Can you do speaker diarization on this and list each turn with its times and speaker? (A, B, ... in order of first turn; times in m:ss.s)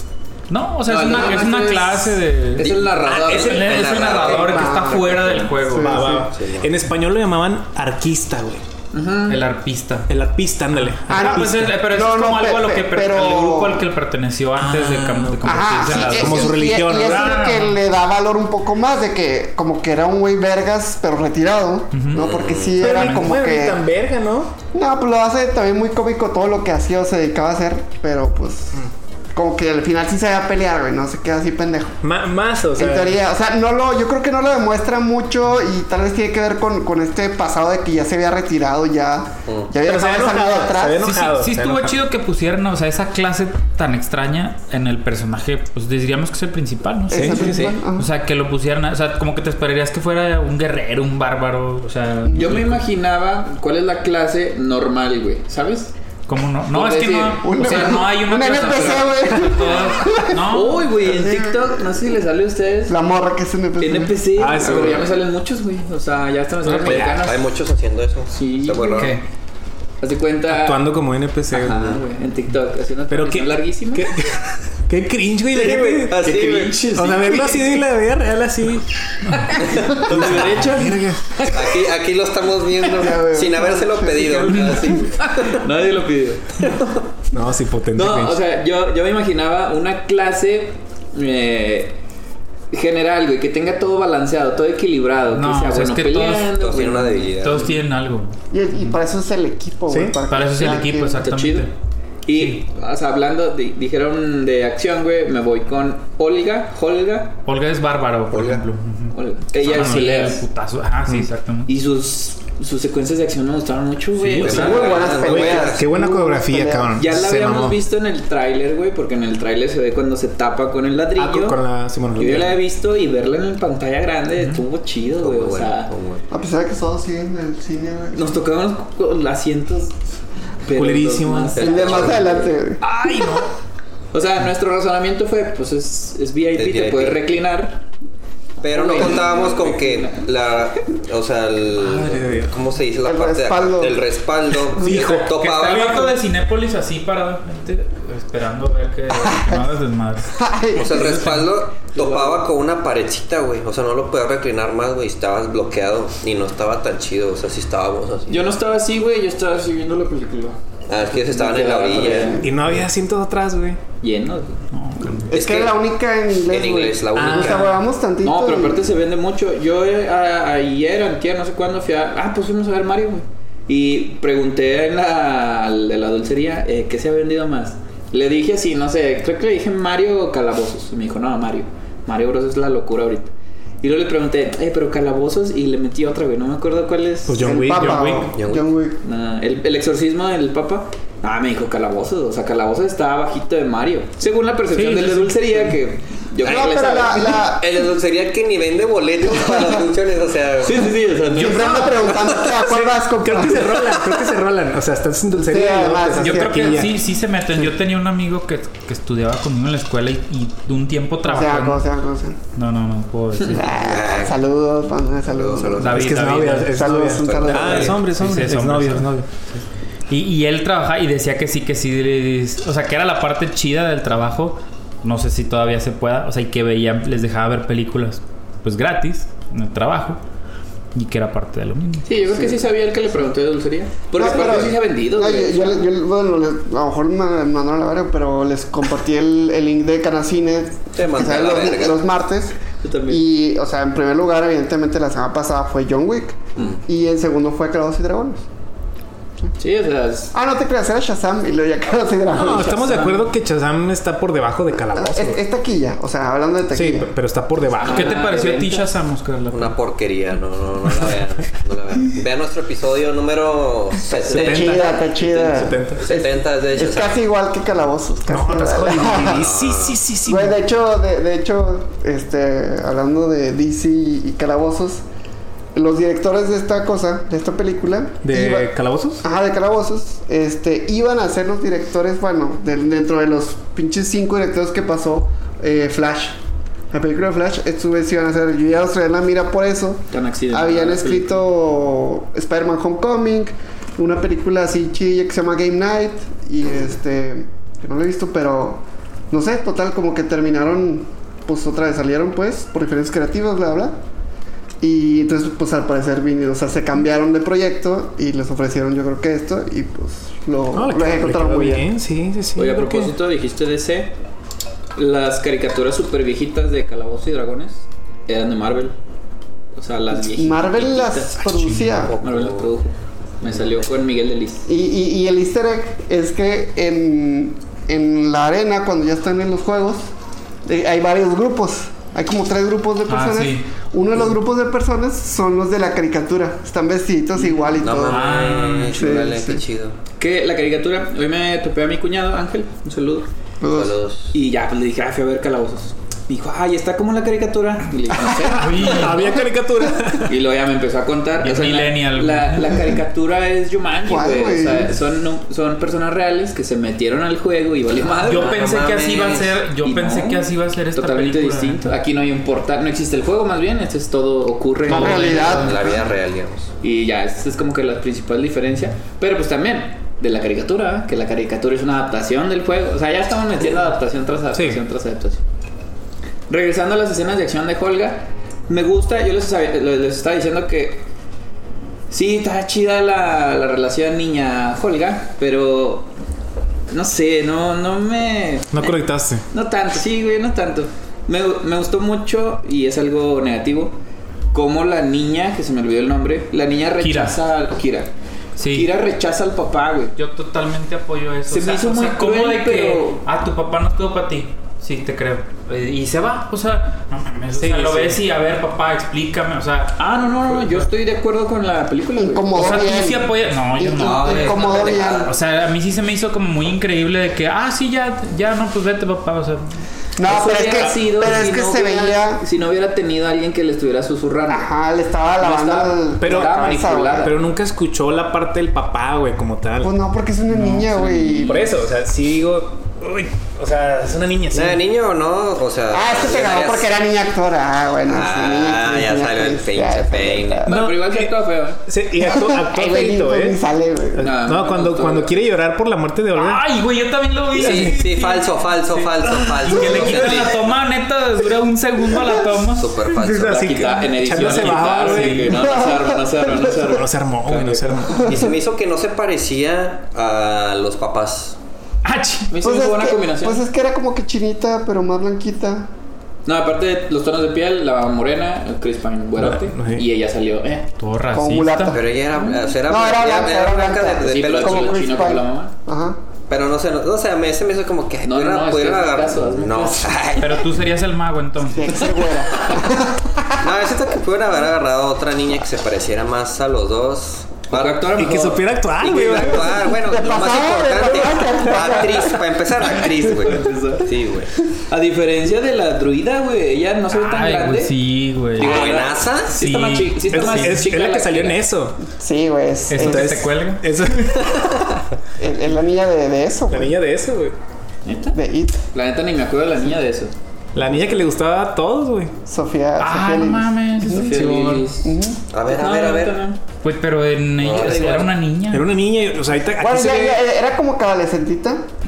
0:00.5-0:02.8 A
0:00.9-0:04.3 B
0:03.0-0:04.7 C
0:03.1-0:04.8 D
0:03.3-0:06.0 A
0:04.4-0:06.3 E
0:05.8-0:08.6 C
0:06.3-0:06.7 D
0:08.9-0:09.4 B
0:09.3-0:10.1 A
0:10.1-0:11.5 C
0:10.7-0:17.8 A
0:11.1-0:13.9 E
0:14.6-0:17.5 C
0:15.4-0:23.8 E
0:21.9-0:23.4 A
0:22.1-0:22.8 D
0:22.8-0:24.5 C
0:24.7-0:28.8 E
0:29.3-0:32.0 E
0:32.0-0:33.2 C
0:32.8-0:41.1 E
0:39.4-0:39.7 D
0:39.8-0:41.9 C
0:41.0-0:52.8 A
0:47.1-0:48.1 E
0:47.1-0:47.8 C
0:52.3-0:52.6 E
0:52.3-0:55.9 B
0:56.3-1:00.9 A
0:56.7-0:59.2 B
0:57.4-1:02.0 E
1:00.5-1:03.0 B
1:02.9-1:04.9 E
1:03.8-1:07.4 B
1:04.4-1:05.1 C
1:06.6-1:07.2 C
1:06.8-1:09.2 D
1:08.3-1:09.1 B
1:08.9-1:09.2 A
1:10.0-1:14.1 B
1:10.5-1:12.0 C
1:13.1-1:21.4 C
1:15.5-1:16.8 D
1:16.0-1:17.8 B
1:19.7-1:21.8 B
1:21.5-1:25.6 D
1:22.9-1:24.4 E
1:24.9-1:26.8 B
1:27.3-1:28.4 C
1:27.9-1:32.0 B
1:32.7-1:37.7 B
1:35.3-1:36.5 A
1:36.5-1:37.7 D
1:37.4-1:39.0 A
1:38.5-1:41.2 E
1:39.9-1:40.2 C
1:40.3-1:41.7 A
1:40.6-1:41.7 B
1:42.2-1:47.4 B
1:42.3-1:42.6 A
1:47.4-1:51.7 A
1:48.3-1:48.6 D
1:49.1-1:50.4 B
1:51.7-1:55.2 B
1:54.2-1:54.8 A
1:54.4-1:57.8 C
1:54.4-1:55.9 D
1:54.5-1:57.0 E
1:57.0-2:01.6 B
2:01.2-2:02.6 C
2:02.1-2:05.9 B
2:05.2-2:06.2 D
2:06.3-2:08.4 E
2:08.1-2:10.0 B
2:10.6-2:13.5 B
2:10.7-2:11.7 C
2:11.5-2:12.3 D
2:11.6-2:12.8 E
2:13.1-2:13.5 C
2:14.1-2:17.8 B
2:16.6-2:17.2 D
2:18.6-2:26.2 D
2:18.7-2:20.3 B
2:21.8-2:22.6 C
2:23.0-2:24.0 E
2:24.8-2:25.0 E
2:24.8-2:25.3 C
2:24.9-2:30.3 A
2:29.1-2:29.6 E
2:30.3-2:30.9 E
2:30.7-2:38.5 D
2:30.9-2:31.5 A
2:31.9-2:32.4 B
2:38.3-2:40.6 B
2:40.9-2:42.4 D
2:41.2-2:42.5 B
2:42.0-2:42.4 E
2:42.4-2:43.8 C
2:44.0-2:44.6 B
2:44.7-2:45.3 A
2:45.3-2:48.8 E
2:45.3-2:45.7 D
2:46.5-2:47.7 D
2:47.2-2:47.7 C
2:48.2-3:07.6 B
3:07.2-3:08.3 C
3:07.4-3:09.0 E
3:08.4-3:08.7 D
3:09.0-3:17.5 B
3:14.7-3:15.7 A
3:16.4-3:17.7 E
3:17.5-3:22.5 D
3:19.3-3:19.7 E
3:20.6-3:21.8 B
3:21.3-3:24.2 E
3:21.4-3:21.8 A
3:22.6-3:26.9 C
3:25.3-3:26.9 E
3:26.2-3:31.8 A
3:31.2-3:32.4 E
3:32.5-3:33.7 A
3:33.5-3:36.1 E
3:33.7-3:34.4 D
3:35.3-3:36.1 D
3:35.8-3:36.8 A
3:35.9-3:39.2 C
3:36.7-3:38.0 E
3:37.2-3:38.0 D
3:37.8-3:50.2 A
3:50.9-3:52.4 A
3:52.1-3:55.9 B
3:54.1-4:02.6 E
4:00.9-4:02.0 D
4:02.8-4:03.2 B
4:03.1-4:08.4 E
4:09.6-4:10.3 B
4:10.3-4:13.0 E
4:12.3-4:15.4 C
4:12.5-4:13.3 B
4:14.8-4:17.1 E
4:16.7-4:18.2 C
4:17.8-4:18.8 B
4:17.8-4:19.8 A
4:19.5-4:24.8 D
4:24.3-4:26.0 C
4:24.3-4:29.4 E
4:26.0-4:27.2 D
4:28.3-4:30.6 C
4:29.2-4:30.0 D
4:30.2-4:35.0 E
4:35.7-4:38.7 E
4:38.2-4:39.2 C
4:39.2-4:46.4 E
4:46.9-5:04.0 E
4:50.1-4:51.4 B
5:04.8-5:11.9 E
5:10.7-5:13.1 C
5:12.6-5:14.2 B
5:14.9-5:19.0 B
5:19.7-5:21.4 B
5:20.1-5:22.2 E
5:21.5-5:22.1 A
5:22.0-5:22.8 D
5:22.2-5:24.6 B
5:24.7-5:30.0 E
5:30.6-5:38.4 E
5:33.1-5:33.7 A
5:37.4-5:37.7 B
5:37.8-5:40.0 D
5:38.0-5:39.0 A
5:38.9-5:39.6 E
5:40.2-5:43.3 B
5:43.6-5:44.0 E
5:43.7-5:44.3 D
5:44.3-5:49.4 B
5:48.5-5:49.2 A
5:48.8-5:50.3 C
5:50.2-5:58.6 B
5:51.4-5:53.0 A
5:54.0-5:54.9 E
5:58.2-6:01.9 A
5:58.3-5:59.6 D
5:59.8-6:05.7 B
6:04.9-6:05.8 E
6:04.9-6:06.0 A
6:05.6-6:06.7 D
6:06.8-6:15.4 B
6:14.5-6:14.8 C
6:16.5-6:21.0 B
6:22.1-6:26.1 B
6:26.9-6:34.0 B
6:28.7-6:29.4 C
6:34.5-6:38.1 B
6:37.0-6:37.4 A
6:38.6-6:38.9 A
6:38.7-6:40.1 B
6:40.2-6:50.0 A
6:41.5-6:43.2 B
6:47.6-6:48.2 C
6:50.0-6:52.8 B
6:50.5-6:50.8 A
6:52.2-6:55.3 E
6:52.5-6:59.7 A
6:54.0-6:55.4 D
7:00.2-7:02.4 E
7:00.2-7:04.7 B
7:04.5-7:07.3 E
7:05.4-7:07.4 B
7:06.2-7:06.6 C
7:07.2-7:09.9 C
7:09.8-7:11.7 E
7:10.5-7:11.6 A
7:11.4-7:14.8 C
7:14.5-7:16.9 D
7:15.9-7:20.7 E
7:18.1-7:20.7 D
7:20.6-7:21.8 B
7:20.7-7:21.3 C
7:21.8-7:23.6 C
7:22.2-7:24.3 E
7:24.2-7:26.6 C
7:24.2-7:25.3 B
7:26.3-7:32.9 A
7:27.6-7:30.6 D
7:27.6-7:28.0 C
7:29.6-7:30.5 C
7:32.7-7:33.8 D
7:33.1-7:35.7 C
7:33.4-7:38.1 B
7:34.3-7:35.6 A
7:35.6-7:36.8 E
7:36.7-7:38.3 C
7:38.2-7:38.5 E
7:38.2-7:41.6 D
7:42.0-7:42.5 A
7:42.5-7:43.6 B
7:42.6-7:45.9 E
7:46.4-7:50.9 B
7:49.4-7:50.0 C
7:51.0-7:52.0 A
7:51.3-7:52.1 E
7:51.9-7:55.1 D
7:52.4-7:52.6 B
7:52.9-7:56.2 E
7:54.2-7:55.7 B
7:56.5-8:00.7 D
7:58.2-8:00.2 B
8:00.4-8:02.1 A
8:01.7-8:03.6 E
8:03.6-8:08.1 D
8:07.7-8:08.8 B
8:08.1-8:09.9 C
8:09.0-8:14.5 D
8:10.0-8:12.4 E
8:13.4-8:14.1 B
8:14.9-8:17.9 B
8:17.1-8:19.0 A
8:18.6-8:21.6 B
8:18.6-8:19.5 D
8:19.5-8:20.7 A
8:20.3-8:22.0 C
8:22.2-8:23.5 E
8:22.9-8:23.9 A
8:23.0-8:24.8 C
8:25.4-8:26.9 E
8:26.7-8:27.5 C
8:28.0-8:28.4 B
8:28.3-8:28.8 E
8:28.9-8:30.3 B
8:30.7-8:32.3 C
8:32.5-8:34.4 E
8:33.0-8:34.4 A
8:34.1-8:36.6 B
8:34.3-8:34.9 C
8:35.0-8:35.4 E
8:35.5-8:36.4 D
8:36.8-8:38.9 A
8:37.6-8:38.2 D
8:37.6-8:38.3 B
8:38.7-8:40.4 C
8:39.8-8:41.8 E